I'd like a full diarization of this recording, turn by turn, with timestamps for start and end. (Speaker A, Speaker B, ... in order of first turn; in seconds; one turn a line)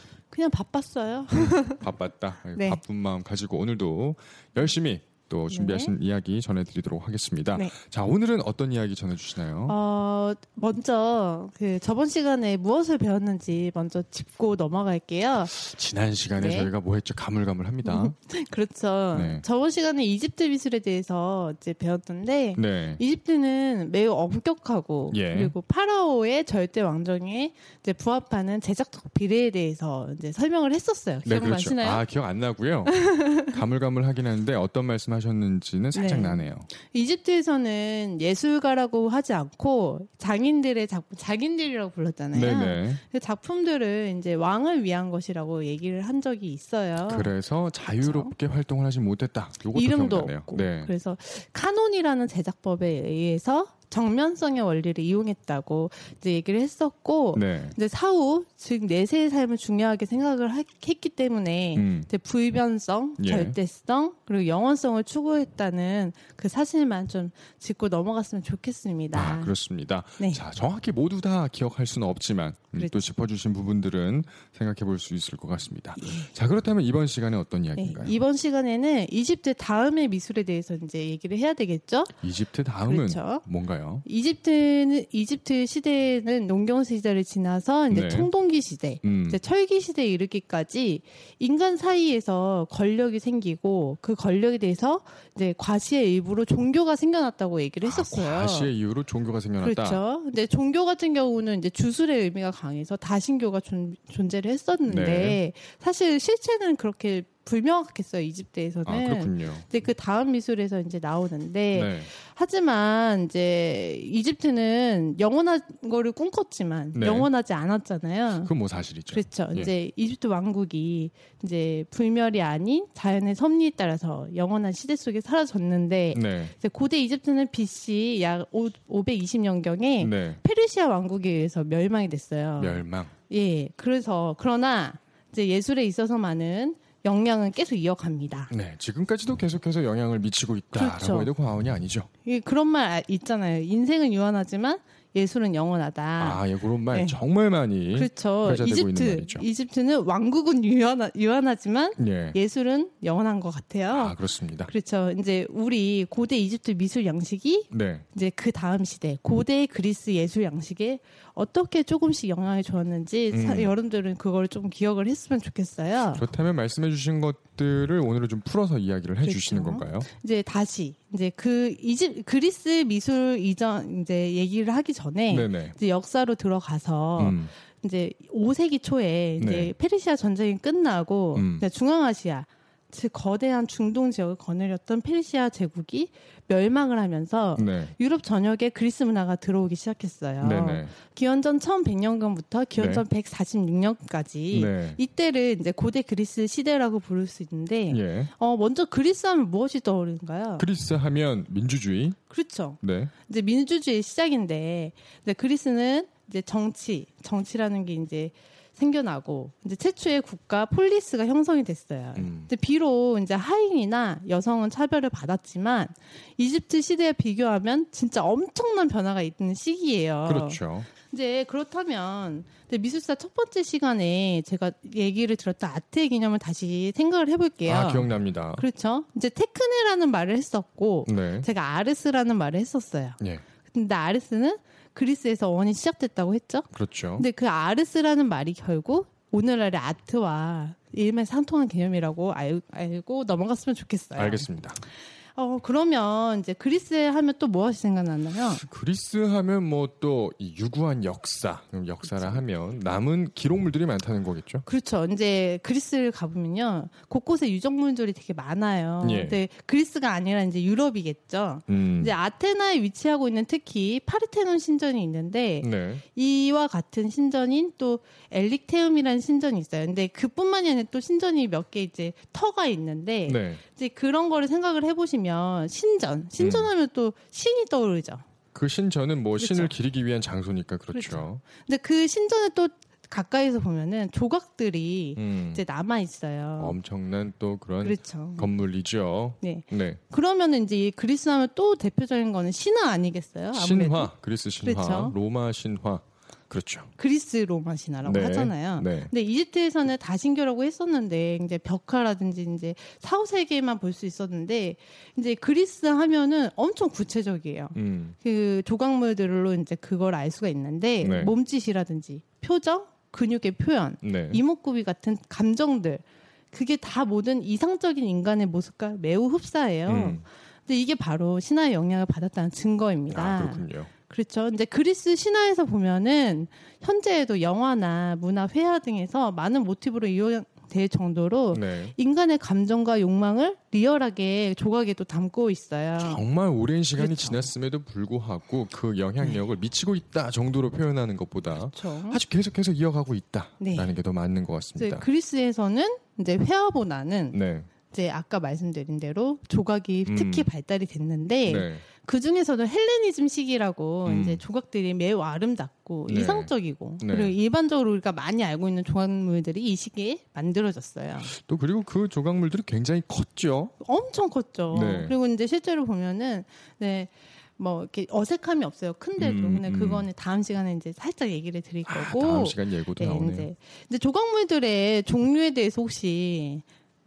Speaker A: 0.3-1.8
Speaker B: 1.4-9.8
Speaker A: 2.5-2.8
Speaker A: 5.5-5.9
Speaker A: 9.7-15.5
Speaker B: 15.5-18.1
Speaker A: 16.4-16.7
Speaker A: 17.8-32.0
Speaker B: 19.1-19.4
Speaker B: 22.5-23.0
Speaker B: 25.1-25.5
Speaker B: 31.2-36.7
Speaker A: 33.1-33.4
Speaker A: 35.9-47.3
Speaker B: 42.3-43.0
Speaker B: 47.0-50.9
Speaker A: 48.0-48.3
Speaker A: 49.7-69.5
Speaker B: 57.3-57.8
Speaker B: 61.7-62.1
Speaker B: 63.2-63.5
Speaker B: 69.1-78.2
Speaker A: 72.7-73.0
Speaker A: 76.0-76.3
Speaker A: 77.8-82.2
Speaker B: 82.2-84.0
Speaker A: 82.8-83.4
Speaker A: 84.0-98.7
Speaker B: 87.9-88.3
Speaker B: 89.0-89.4
Speaker B: 97.8-100.0
Speaker A: 99.6-118.5
Speaker B: 104.8-105.4
Speaker B: 108.8-109.7
Speaker B: 111.7-112.1
Speaker B: 116.9-117.3
Speaker B: 118.4-119.7
Speaker A: 119.1-138.5
Speaker B: 126.1-126.5
Speaker B: 130.0-130.4
Speaker B: 132.6-133.1
Speaker B: 138.5-142.1
Speaker A: 140.7-141.3
Speaker A: 142.2-147.2
Speaker B: 146.2-149.4
Speaker A: 147.9-166.2
Speaker B: 151.9-152.4
Speaker B: 153.9-154.7
Speaker B: 157.7-158.1
Speaker B: 163.3-163.7
Speaker B: 166.1-170.1
Speaker A: 169.2-200.7
Speaker B: 175.3-175.8
Speaker B: 177.2-177.5
Speaker B: 179.4-179.7
Speaker B: 181.3-181.7
Speaker B: 187.6-187.9
Speaker B: 190.4-190.9
Speaker B: 192.8-193.0
Speaker B: 194.5-195.0
Speaker B: 197.9-198.3
Speaker B: 200.6-202.2
Speaker A: 202.3-244.5
Speaker B: 202.8-203.1
Speaker B: 212.2-212.5
Speaker B: 220.2-220.9
Speaker B: 227.6-228.7
Speaker B: 231.1-231.5
Speaker B: 236.7-237.2
Speaker B: 244.1-244.8
Speaker A: 245.3-248.6
Speaker B: 248.6-254.6
Speaker A: 252.1-252.4
Speaker A: 254.6-278.2
Speaker B: 259.0-259.4
Speaker B: 261.7-262.1
Speaker B: 265.6-266.0
Speaker B: 273.2-273.6
Speaker B: 276.4-276.7
Speaker B: 278.5-281.4
Speaker A: 279.4-279.7
Speaker A: 280.9-286.8
Speaker B: 285.1-285.6
Speaker B: 286.6-290.0
Speaker A: 287.8-288.5
Speaker A: 289.4-295.1
Speaker B: 293.5-296.9
Speaker A: 297.0-336.2
Speaker B: 298.0-299.1
Speaker B: 307.7-308.1
Speaker B: 311.0-311.3
Speaker B: 314.0-314.4
Speaker B: 319.9-320.2
Speaker B: 323.1-323.9
Speaker B: 331.5-331.9
Speaker B: 336.0-345.1
Speaker A: 336.9-337.5
Speaker A: 341.6-342.2
Speaker A: 343.6-343.9
Speaker A: 344.8-361.3
Speaker B: 347.3-347.7
Speaker B: 350.1-350.5
Speaker B: 351.4-351.8
Speaker B: 354.0-354.4
Speaker B: 356.1-357.4
Speaker B: 361.3-363.7
Speaker A: 363.8-376.6
Speaker B: 364.7-365.1
Speaker B: 369.2-370.1
Speaker B: 371.9-373.5